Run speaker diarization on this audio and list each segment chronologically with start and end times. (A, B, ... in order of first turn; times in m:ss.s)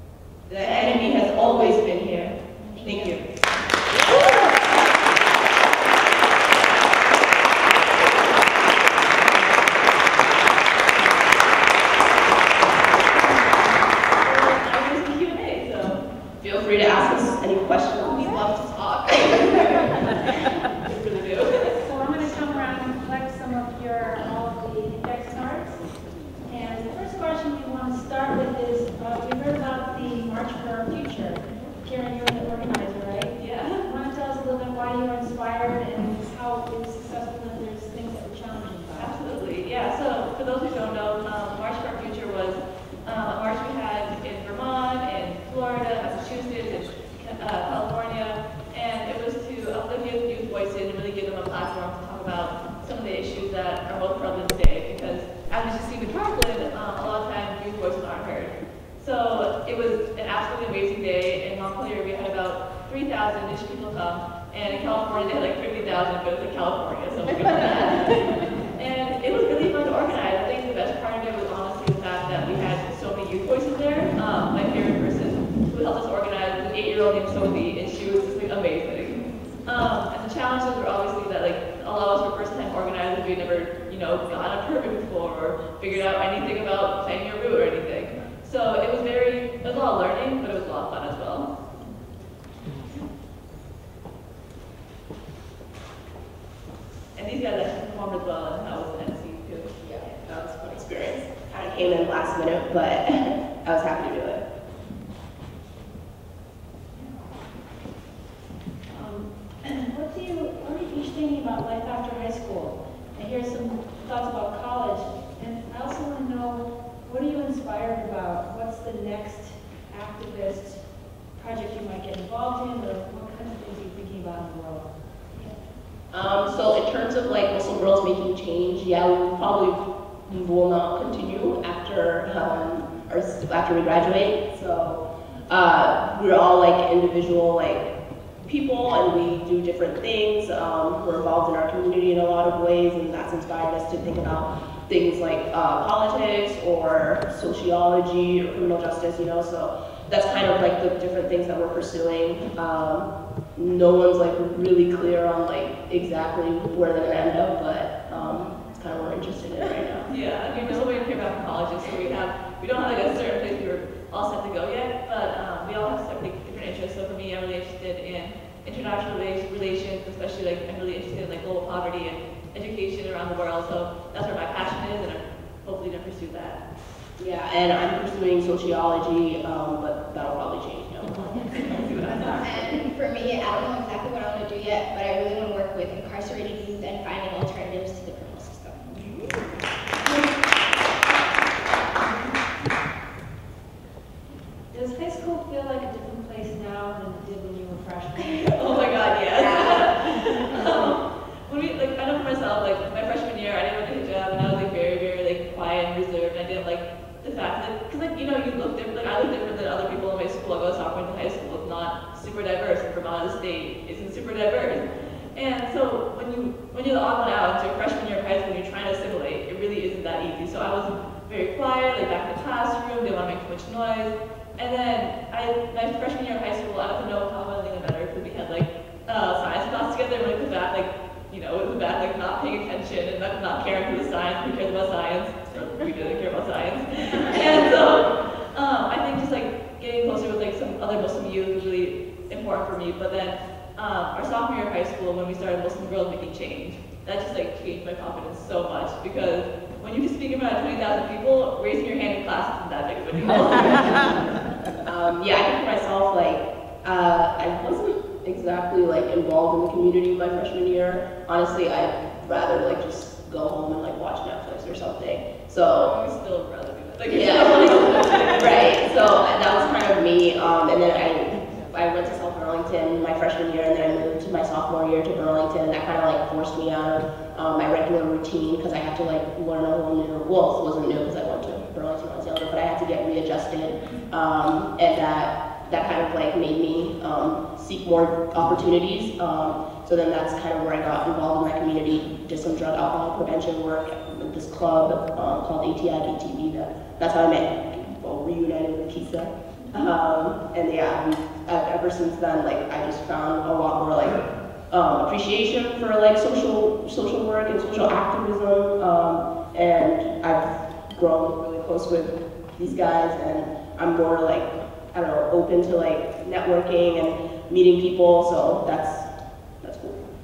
0:00.5-0:03.2 A
0:00.6-0:02.0 B
0:02.8-0:03.2 B
0:14.2-0:16.0 C
0:16.4-0:19.6 A
0:19.2-0:19.8 C
0:20.9-0:21.7 C
0:21.7-0:25.8 D
0:26.4-0:39.1 D
0:33.4-0:33.8 C
0:39.0-1:31.5 C
1:37.2-1:39.7 C
1:39.9-1:44.4 A
1:48.9-2:00.8 D
2:01.4-2:04.9 D
2:06.1-2:40.1 A
2:40.1-2:56.6 C
2:57.2-3:01.7 A
3:01.6-3:02.4 C
3:02.4-3:08.8 B
3:14.7-3:18.6 D
3:18.6-4:14.3 C
3:19.4-3:20.6 B
4:14.8-4:26.0 A
4:25.7-4:28.7 C
4:27.1-5:19.1 A
5:19.6-5:20.0 A